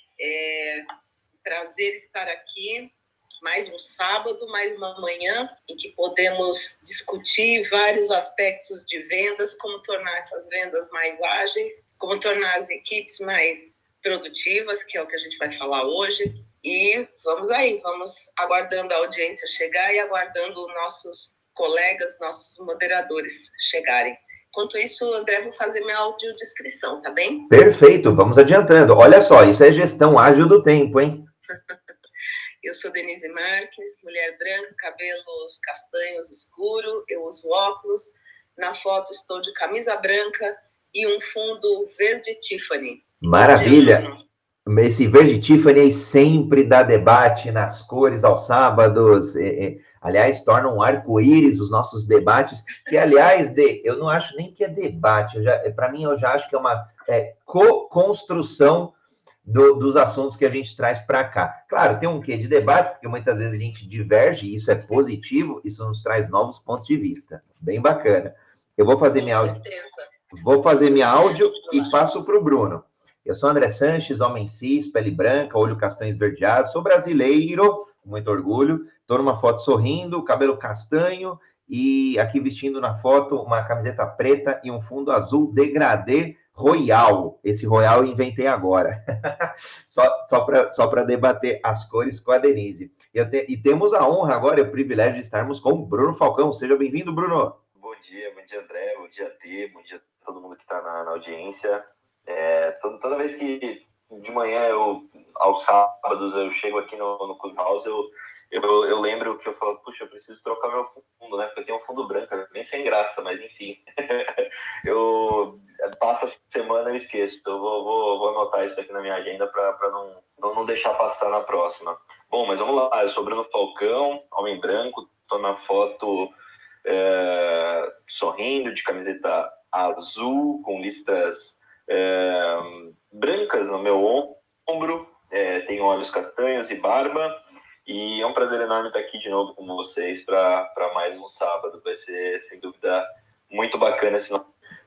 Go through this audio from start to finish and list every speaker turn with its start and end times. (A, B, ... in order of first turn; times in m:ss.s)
0:00.2-0:00.8 A
0:01.4-0:27.5 A
0:27.5-0:31.3 B
0:32.6-0:44.2 A
0:43.2-0:44.0 B
0:44.7-1:09.6 B
1:09.2-1:10.0 A
1:10.3-1:37.6 B
1:11.2-1:12.0 A
1:37.8-2:06.3 C
2:06.8-2:24.4 C